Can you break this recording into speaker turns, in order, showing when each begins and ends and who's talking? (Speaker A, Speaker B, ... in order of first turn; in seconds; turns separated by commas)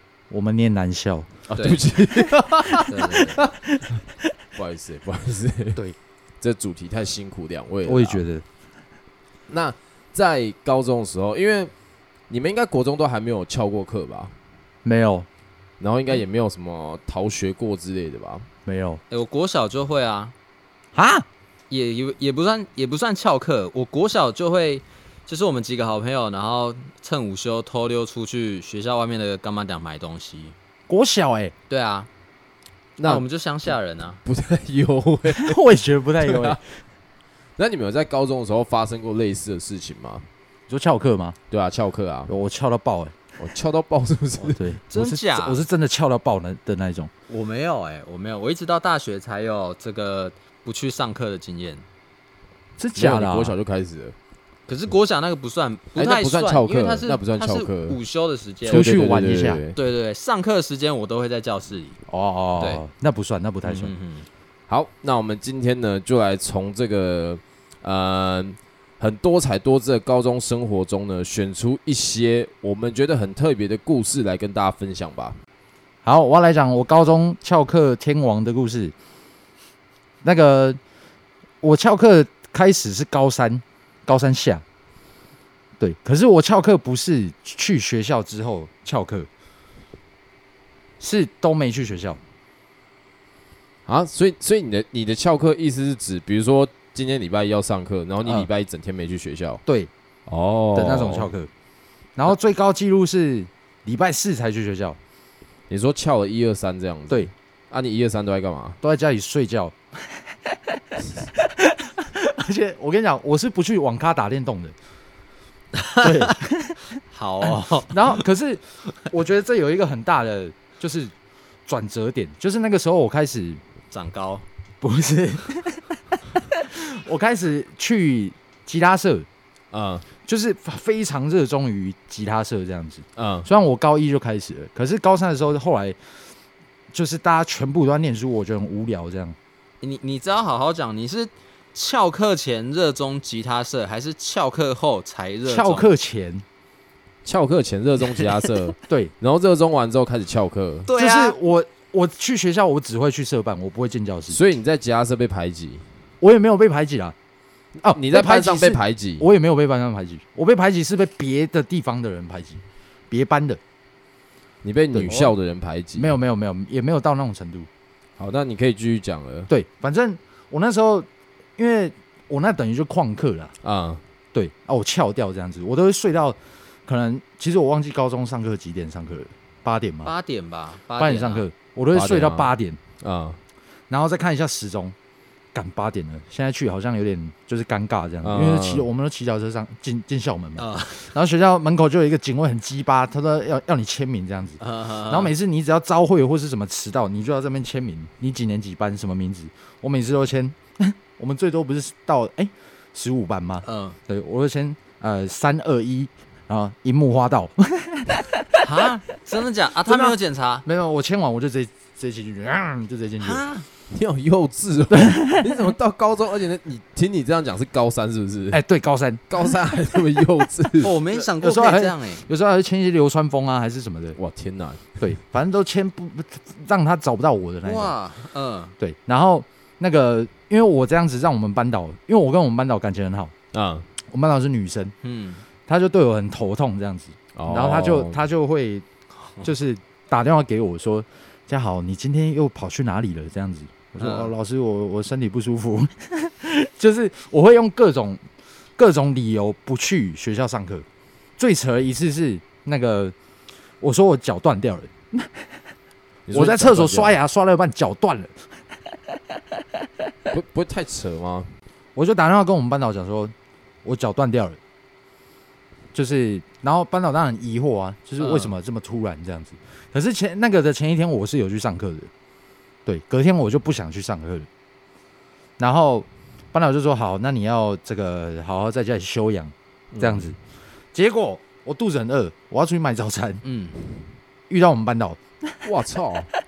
Speaker A: 0.3-1.3, Speaker B: 1.5-3.5, Speaker C: 1.5-1.8, Speaker C: 2.9-3.4, Speaker A: 3.1-4.0, Speaker B: 4.5-5.8, Speaker B: 6.4-8.2, Speaker A: 7.8-8.4, Speaker B: 9.5-11.7, Speaker B: 12.3-14.3, Speaker A: 14.8-15.3, Speaker B: 15.8-18.5, Speaker A: 18.6-19.0, Speaker C: 19.1-20.3, Speaker A: 20.9-21.3, Speaker C: 21.7-30.5, Speaker A: 30.9-31.5, Speaker C: 31.7-32.1, Speaker B: 33.0-33.2, Speaker C: 33.0-34.2, Speaker B: 34.2-35.6, Speaker A: 35.3-36.6, Speaker B: 36.2-36.6, Speaker B: 37.6-40.3, Speaker A: 40.7-41.4, Speaker B: 41.5-42.3, Speaker A: 42.3-43.2, Speaker B: 43.4-44.6, Speaker A: 44.5-47.1, Speaker C: 44.5-45.6, Speaker C: 47.3-51.8, Speaker A: 52.8-53.5, Speaker B: 52.9-54.1, Speaker C: 54.7-58.9, Speaker B: 56.0-58.0, Speaker B: 58.6-59.8, Speaker A: 58.6-59.6, Speaker C: 59.7-62.0, Speaker A: 62.1-63.9, Speaker C: 63.6-64.3, Speaker B: 64.7-75.4, Speaker A: 76.0-78.9, Speaker A: 80.2-80.8, Speaker A: 81.6-84.6, Speaker A: 85.8-89.3, Speaker A: 91.0-92.2, Speaker B: 93.8-99.6, Speaker A: 98.2-98.5, Speaker B: 100.3-101.3, Speaker A: 100.7-101.5, Speaker A: 102.2-105.0, Speaker B: 105.7-108.8, Speaker A: 108.8-109.7, Speaker A: 111.0-114.7, Speaker C: 115.8-116.3, Speaker A: 116.0-116.8, Speaker C: 117.1-118.2, Speaker A: 117.9-121.1, Speaker A: 121.7-123.6, Speaker C: 123.9-124.4, Speaker A: 124.8-129.3, Speaker B: 129.7-130.1, Speaker A: 130.2-136.0, Speaker B: 133.2-133.5, Speaker A: 136.9-139.3, Speaker C: 139.8-145.9, Speaker A: 145.4-146.4, Speaker B: 147.2-150.9, Speaker C: 148.1-148.5, Speaker C: 150.9-151.3, Speaker A: 150.9-154.4, Speaker B: 154.3-155.8, Speaker A: 156.2-157.2, Speaker A: 157.8-163.6, Speaker B: 157.9-159.2, Speaker B: 164.6-166.1, Speaker A: 164.9-165.3, Speaker A: 165.9-167.7, Speaker B: 168.2-169.5, Speaker A: 169.5-173.5, Speaker B: 173.6-174.0, Speaker A: 174.3-180.1, Speaker C: 180.0-181.4, Speaker A: 181.0-182.8, Speaker B: 181.9-183.4, Speaker A: 183.9-184.9, Speaker A: 185.5-208.6, Speaker B: 188.2-188.9, Speaker C: 190.6-191.1, Speaker C: 194.6-195.3, Speaker C: 203.6-204.0, Speaker C: 208.6-210.6, Speaker A: 209.9-213.4, Speaker C: 213.2-213.7, Speaker B: 213.9-218.6, Speaker A: 214.9-215.6, Speaker A: 218.5-219.2, Speaker B: 219.3-220.9, Speaker C: 220.8-222.2, Speaker A: 221.1-224.2, Speaker B: 224.2-225.0, Speaker A: 225.0-227.9, Speaker C: 227.6-228.7, Speaker A: 228.8-233.3, Speaker B: 233.5-233.9, Speaker A: 234.1-234.9, Speaker C: 235.0-235.4, Speaker A: 235.7-238.8, Speaker B: 237.3-238.2, Speaker A: 239.4-248.2, Speaker C: 244.0-244.3, Speaker A: 248.8-250.8, Speaker A: 251.4-253.1, Speaker A: 253.8-255.5, Speaker B: 256.3-257.1, Speaker A: 256.3-258.6, Speaker B: 260.3-261.5, Speaker A: 261.9-263.3, Speaker A: 263.8-264.6, Speaker A: 265.9-272.1, Speaker C: 268.2-268.5, Speaker A: 272.9-274.5, Speaker A: 275.6-280.4, Speaker B: 279.9-280.3, Speaker A: 280.9-283.4, Speaker C: 283.4-283.8, Speaker A: 284.5-285.2, Speaker B: 285.6-286.3